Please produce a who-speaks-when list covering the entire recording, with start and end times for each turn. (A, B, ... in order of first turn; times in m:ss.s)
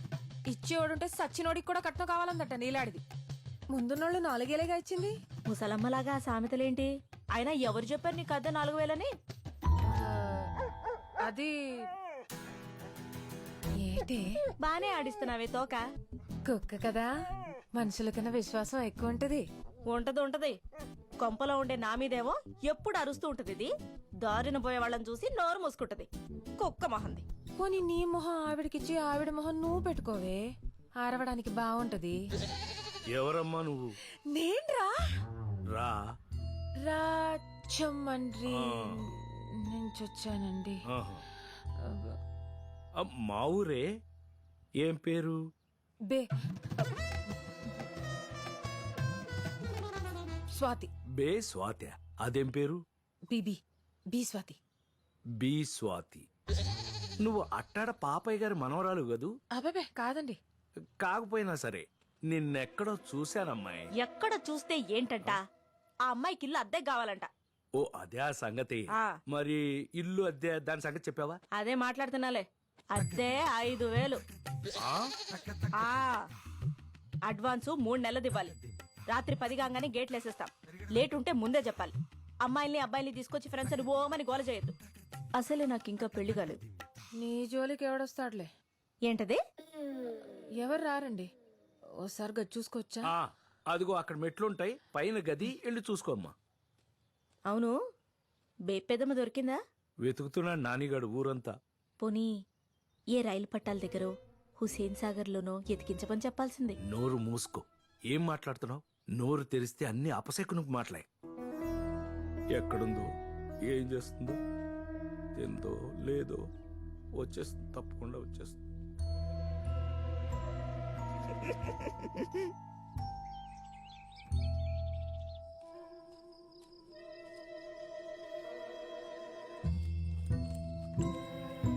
0:00.5-0:03.0 A
0:03.7-0:05.1 A
0:05.5-0:09.1 B
0:09.9-0:10.4 A
0:11.2-0:11.9 A
0:13.8-0:14.4 A
0:14.6-0:15.8 B
0:16.4-0:17.1 A
0:17.7-0:19.4 A
0:19.9-0:20.6 B
0:21.2-0:23.7 B
0:24.2-0:27.2 B
0:27.6-0:30.4 A
0:31.0-0:32.2 A
0:33.1-0:33.9 C
0:34.3-0:34.9 A
0:35.7-0:36.0 C
0:36.8-0:40.8 A
0:38.5-0:39.0 C
0:40.9-0:41.2 C
0:41.8-0:42.2 A
0:43.0-0:43.8 C
0:44.8-0:45.4 C
0:50.5-0:50.9 A
0:51.2-0:52.8 C
0:53.3-0:53.6 A
0:54.1-0:54.6 A
0:55.4-0:56.2 C
0:57.2-0:59.3 C
0:59.5-1:00.4 A
1:01.0-1:03.9 C
1:04.0-1:05.4 B
1:06.0-1:07.3 B
1:07.8-1:11.4 C
1:11.5-1:14.2 B
1:15.8-1:16.2 B
1:17.3-1:18.5 B
1:19.1-1:24.7 B
1:25.4-1:26.6 B
1:27.2-1:28.5 A
1:29.0-1:29.4 B
1:30.6-1:31.3 A
1:32.0-1:33.1 A
1:33.1-1:36.3 C
1:37.5-1:37.7 B
1:38.6-1:39.6 B
1:40.0-1:41.5 C
1:42.0-1:42.3 B
1:43.1-1:46.8 B
1:46.9-1:51.0 C
1:52.5-1:53.1 C
1:53.7-1:54.4 C
1:55.4-1:56.4 C
1:57.2-1:58.6 C